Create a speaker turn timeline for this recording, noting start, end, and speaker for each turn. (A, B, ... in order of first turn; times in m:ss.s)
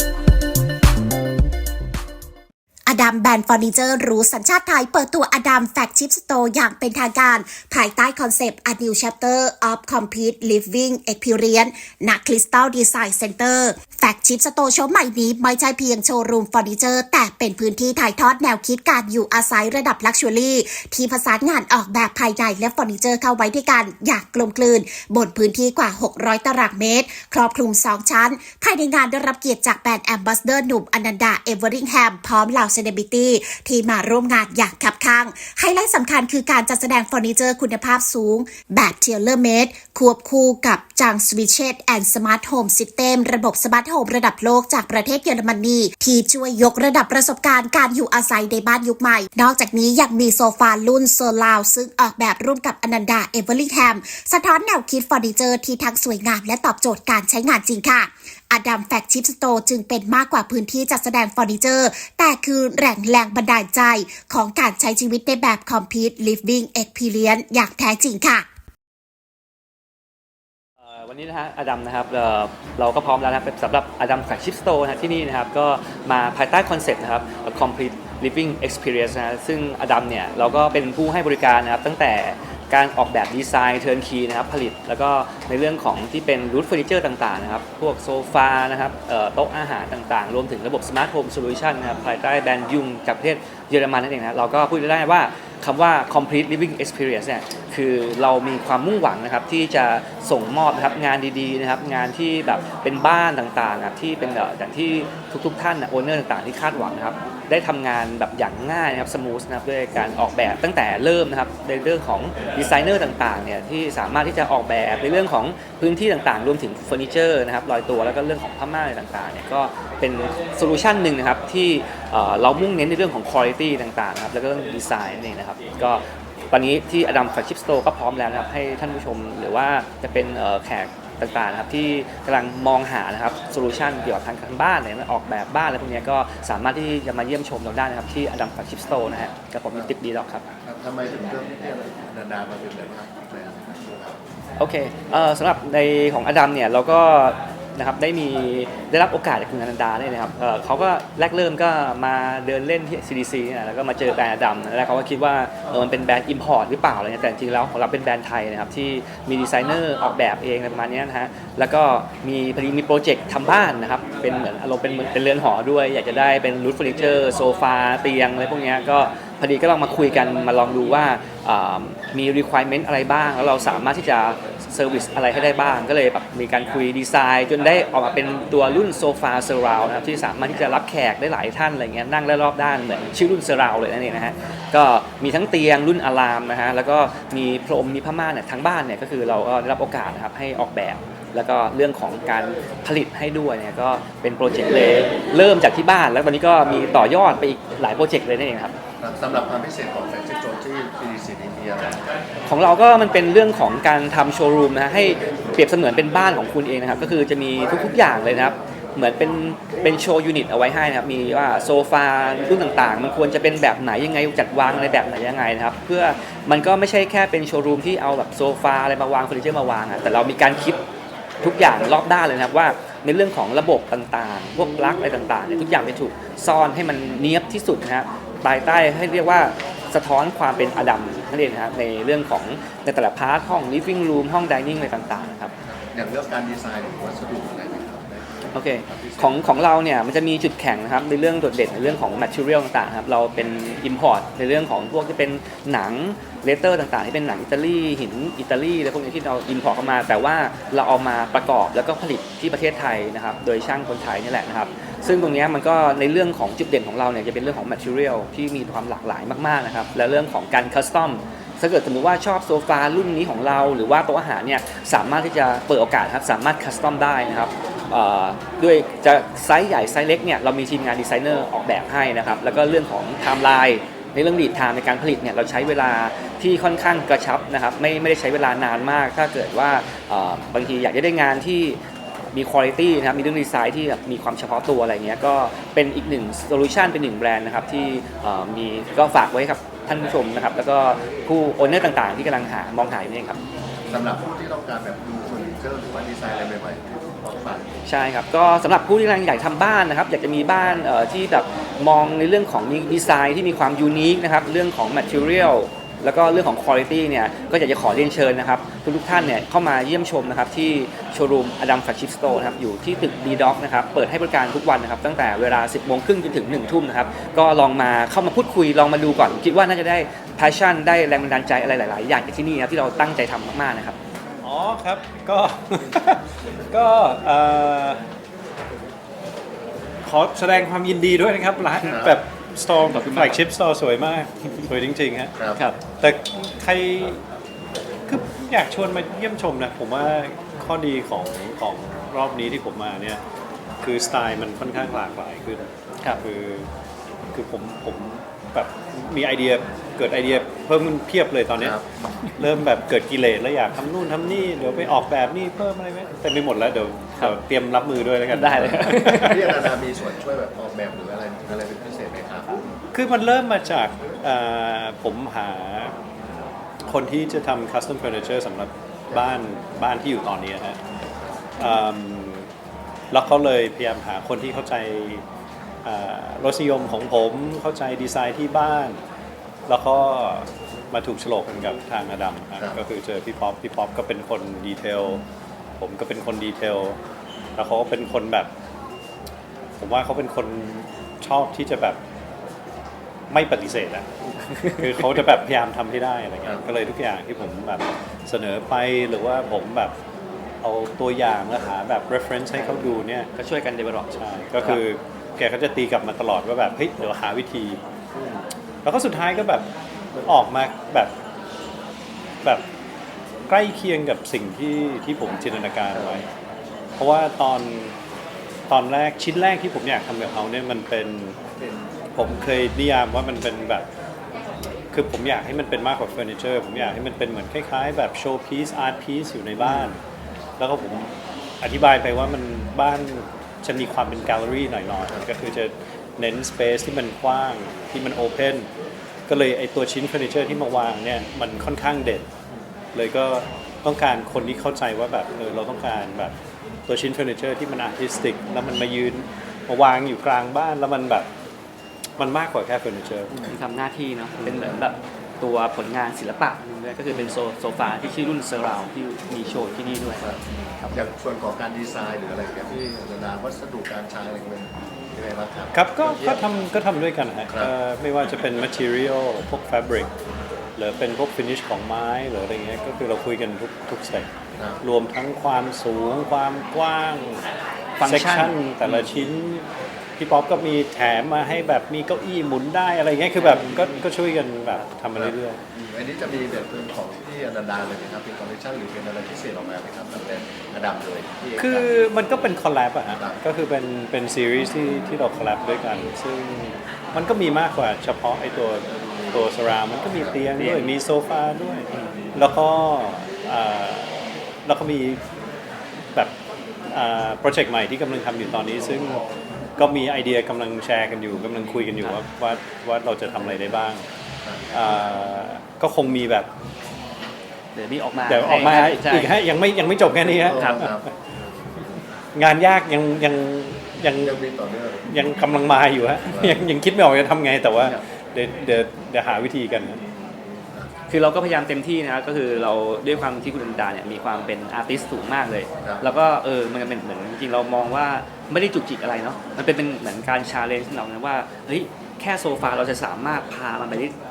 0:02.9-1:08.4 A
1:10.8-2:20.4 B
2:20.6-2:24.2 C
2:24.6-3:18.7 B
3:19.0-3:22.0 C
3:22.4-3:40.8 B
3:41.4-3:55.5 B
3:55.6-3:59.5 C
3:58.5-4:41.8 B
4:42.3-4:53.4 B
4:53.9-4:57.7 C
4:57.8-5:24.0 B
5:24.4-5:28.0 D
5:30.0-5:35.4 D
5:31.9-5:32.1 C
5:32.9-5:33.4 B
5:36.0-5:37.2 D
5:38.1-5:43.2 D
5:43.8-5:46.7 D
5:47.3-5:51.8 D
5:52.4-5:59.7 D
5:58.3-5:59.4 B
5:59.2-6:02.7 C
6:02.9-6:05.9 D
6:06.8-6:10.8 D
6:11.6-6:12.5 D
6:13.1-6:15.2 D
6:15.8-6:19.0 D
6:19.7-6:25.2 D
6:25.8-6:27.0 D
6:27.6-6:28.5 D
6:29.8-6:32.0 D
6:33.3-6:34.1 D
6:34.7-6:39.9 D
6:40.6-6:43.3 D
6:43.4-6:44.8 B
6:44.1-6:47.8 D
6:48.1-6:48.4 C
6:48.8-6:49.7 D
6:50.2-6:51.1 D
6:53.5-6:56.2 D
6:55.9-6:56.2 C
6:57.0-6:57.9 D
6:58.7-7:01.4 D
7:01.6-7:01.9 C
7:02.2-7:03.9 D
7:04.9-7:10.0 D
7:10.6-7:18.7 D
7:19.3-7:22.3 D
7:22.9-7:26.3 D
7:26.9-7:31.3 D
7:32.2-7:33.5 D
7:33.5-7:41.0 B
7:34.5-7:34.8 C
7:40.2-7:46.4 C
7:45.7-7:50.1 D
7:50.8-7:54.3 D
7:54.8-7:57.4 D
7:58.0-7:58.5 B
7:58.0-8:05.6 D
8:05.2-8:11.9 C
8:11.6-8:25.2 D
8:19.0-8:19.5 C
8:20.6-8:20.9 B
8:26.9-8:29.2 D
8:29.8-8:34.0 D
8:34.4-8:34.8 C
8:34.7-8:36.5 D
8:37.7-8:39.4 B
8:38.3-8:40.9 D
8:40.4-8:41.1 C
8:40.5-8:40.9 B
8:42.3-8:44.4 D
8:44.2-8:45.1 C
8:45.1-8:50.0 D
8:46.3-8:46.6 C
8:51.1-9:04.1 B